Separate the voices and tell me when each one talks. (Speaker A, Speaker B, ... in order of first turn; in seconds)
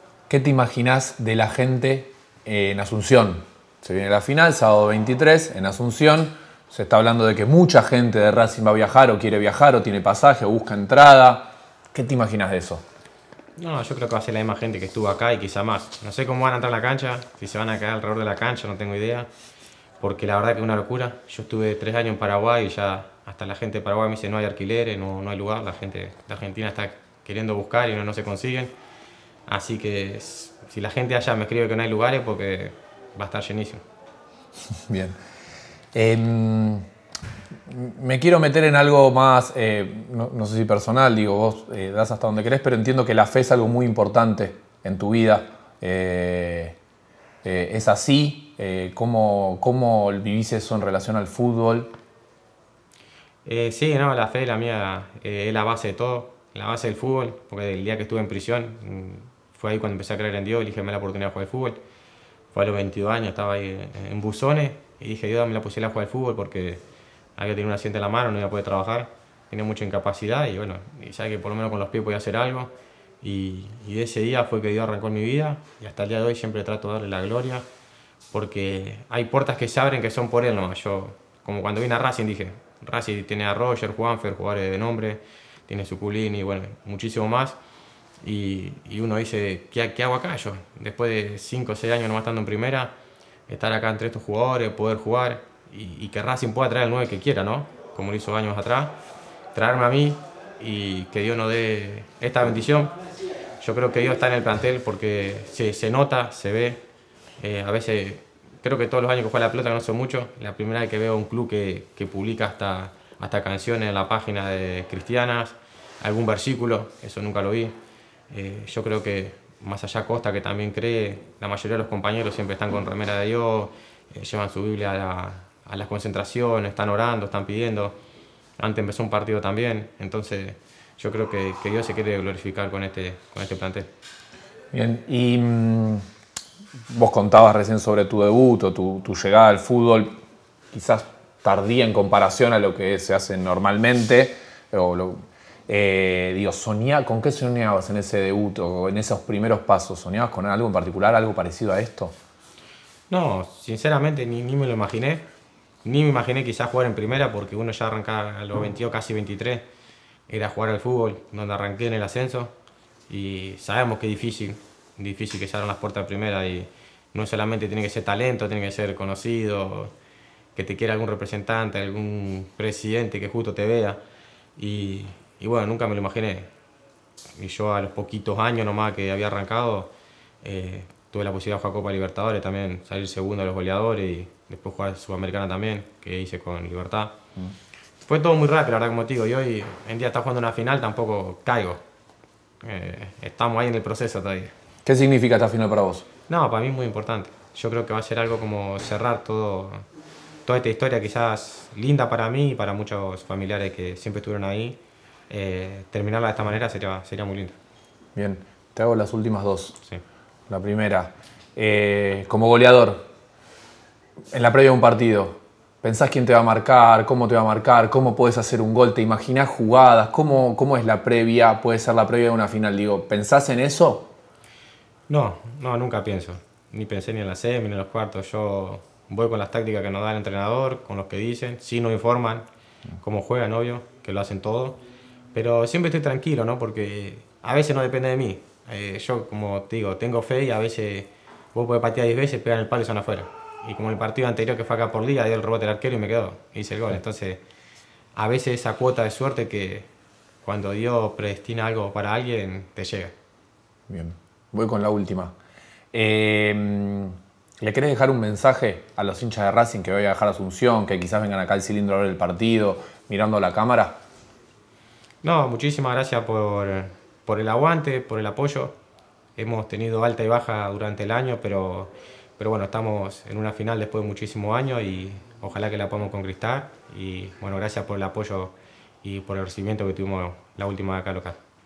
Speaker A: 0.3-12.8, 34.9-35.1, 35.9-36.8, 37.7-46.8, 47.4-51.9, 134.7-136.0, 136.9-140.2, 140.7-152.1, 194.8-196.0, 208.2-209.8, 210.5-213.1, 214.3-224.1, 253.9-255.3, 255.9-264.0
Speaker B: 13.6-19.3, 20.0-28.7, 29.5-33.8, 53.4-61.8, 62.5-66.8, 67.3-77.6, 78.3-87.6, 88.2-92.9, 93.5-98.9, 99.5-102.9, 103.6-106.8, 107.4-117.8, 118.3-128.0, 128.6-133.9, 153.1-155.2, 155.8-159.7, 160.3-162.5, 163.1-169.9, 170.5-174.0, 174.6-176.5, 177.4-179.9, 180.4-187.2, 188.1-191.8, 192.6-194.5, 196.3-199.8, 200.4-204.8, 205.3-207.6, 225.1-232.4, 233.0-234.8, 235.3-247.4, 248.2-249.9, 250.4-253.1, 265.2-268.8, 269.4-281.4